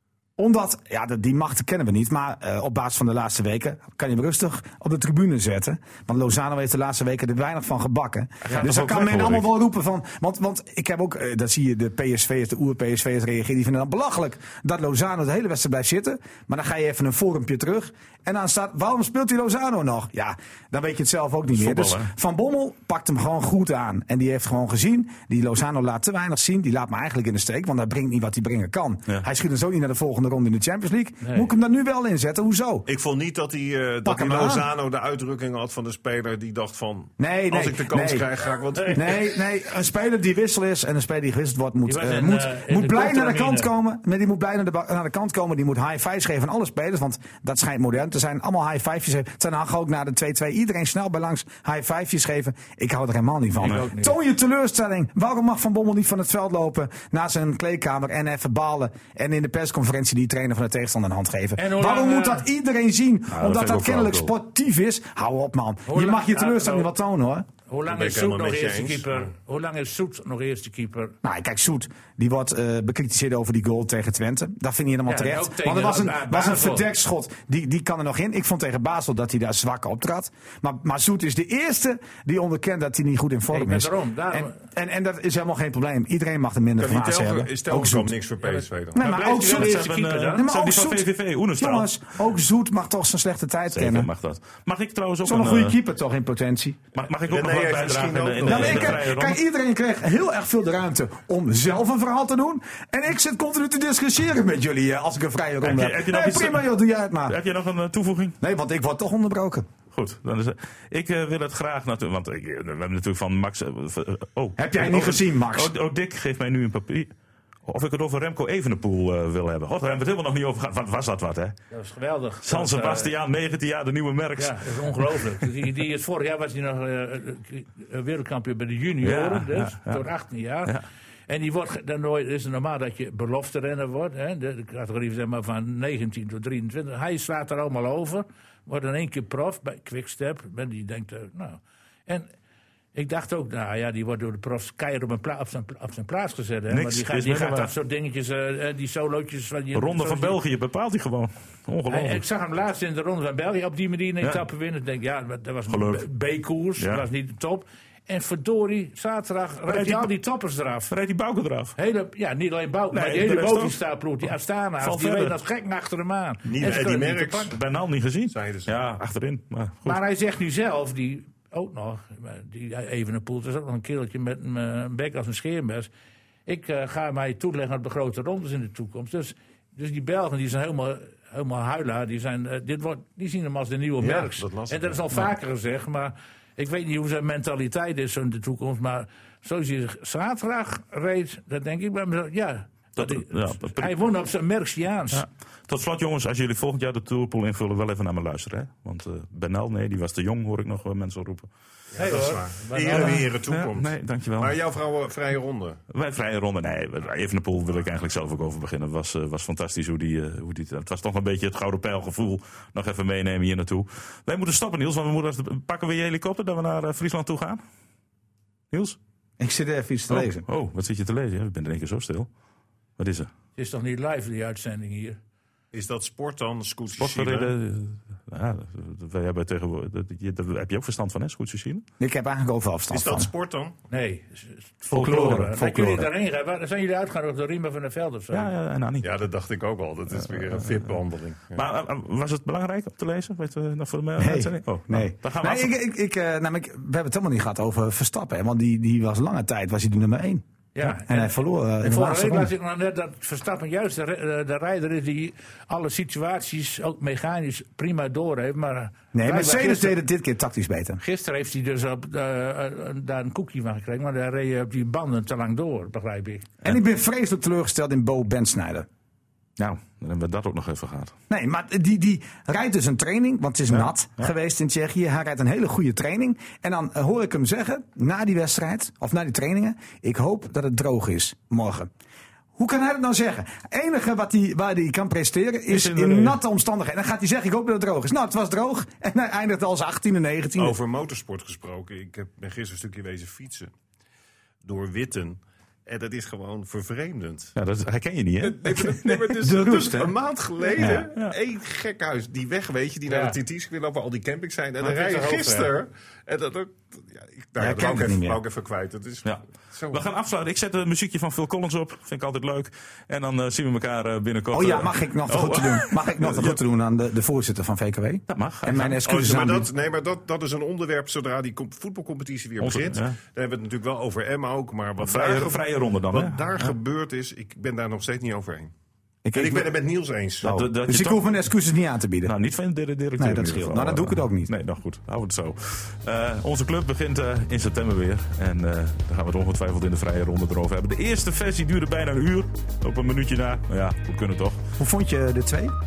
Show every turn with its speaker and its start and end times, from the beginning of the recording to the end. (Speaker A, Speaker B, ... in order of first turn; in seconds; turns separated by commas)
Speaker A: 0.4-32.9, Speaker B: 8.5-9.5, Speaker B: 21.5-22.1, Speaker C: 31.2-31.5, Speaker D: 32.9-39.2, Speaker A: 34.0-34.7, Speaker A: 37.2-38.3, Speaker A: 38.9-67.5, Speaker C: 41.9-43.7, Speaker C: 53.6-54.1, Speaker C: 61.6-62.5, Speaker B: 63.3-64.3, Speaker C: 65.9-66.9, Speaker C: 67.7-71.2, Speaker D: 67.9-69.3, Speaker A: 71.2-88.2, Speaker C: 75.1-76.9, Speaker C: 83.5-84.6, Speaker D: 86.8-89.0, Speaker C: 88.4-90.5, Speaker A: 88.9-94.1, Speaker B: 89.3-92.0, Speaker B: 93.7-95.8, Speaker A: 95.2-96.8, Speaker B: 97.0-99.4, Speaker D: 97.3-99.0, Speaker A: 98.4-107.4, Speaker B: 105.6-106.7, Speaker B: 107.3-108.4, Speaker A: 108.4-109.7, Speaker B: 109.9-117.1, Speaker A: 114.6-115.7, Speaker B: 117.7-121.6, Speaker C: 121.7-123.1, Speaker B: 122.4-124.7, Speaker C: 124.4-142.3, Speaker B: 129.0-130.0, Speaker C: 142.9-150.4, Speaker B: 146.7-147.7, Speaker B: 149.7-152.2, Speaker C: 151.9-160.9, Speaker B: 155.7-156.1, Speaker B: 156.8-157.0, Speaker B: 159.7-160.1, Speaker B: 160.9-161.8, Speaker C: 161.8-167.6, Speaker B: 162.9-163.8, Speaker B: 164.8-165.4, Speaker D: 166.5-167.6, Speaker B: 167.5-170.0, Speaker D: 168.3-168.8, Speaker C: 169.8-175.9, Speaker C: 176.5-195.2, Speaker D: 184.0-185.1, Speaker B: 193.0-194.0, Speaker B: 195.1-201.5, Speaker D: 201.9-205.8, Speaker C: 201.9-203.2, Speaker B: 202.9-204.6, Speaker B: 205.9-217.6, Speaker B: 218.7-219.0, Speaker A: 219.4-220.4, Speaker B: 220.1-222.3, Speaker B: 223.0-223.3, Speaker C: 223.6-225.2, Speaker D: 225.7-227.5, Speaker B: 227.0-231.8, Speaker A: 232.0-233.3, Speaker D: 232.9-233.8, Speaker C: 233.9-238.5, Speaker B: 234.9-236.1, Speaker A: 234.9-236.1, Speaker B: 238.3-239.2, Speaker D: 239.0-241.7, Speaker B: 240.4-240.9, Speaker B: 241.6-245.7, Speaker A: 244.2-252.5, Speaker C: 250.8-260.0, Speaker A: 259.1-261.0, Speaker C: 261.0-266.5, Speaker A: 266.6-268.9, Speaker B: 269.6-271.1, Speaker A: 271.3-281.9, Speaker B: 273.7-274.2, Speaker A: 282.6-290.8, Speaker B: 285.7-286.4, Speaker D: 290.6-293.7, Speaker D: 294.6-297.5, Speaker B: 297.6-299.1, Speaker D: 298.4-310.0, Speaker A: 299.1-300.1, Speaker B: 300.8-301.4, Speaker C: 303.1-303.4, Speaker C: 304.8-305.7, Speaker A: 307.6-308.4, Speaker B: 309.2-316.6, Speaker A: 314.5-319.7, Speaker B: 318.3-319.1, Speaker D: 319.0-328.7, Speaker B: 322.6-323.2, Speaker B: 325.0-326.7, Speaker A: 329.2-329.8, Speaker D: 329.3-330.5, Speaker A: 330.4-332.3, Speaker B: 330.4-331.3, Speaker B: 332.2-344.6, Speaker A: 333.2-334.5, Speaker A: 344.8-345.8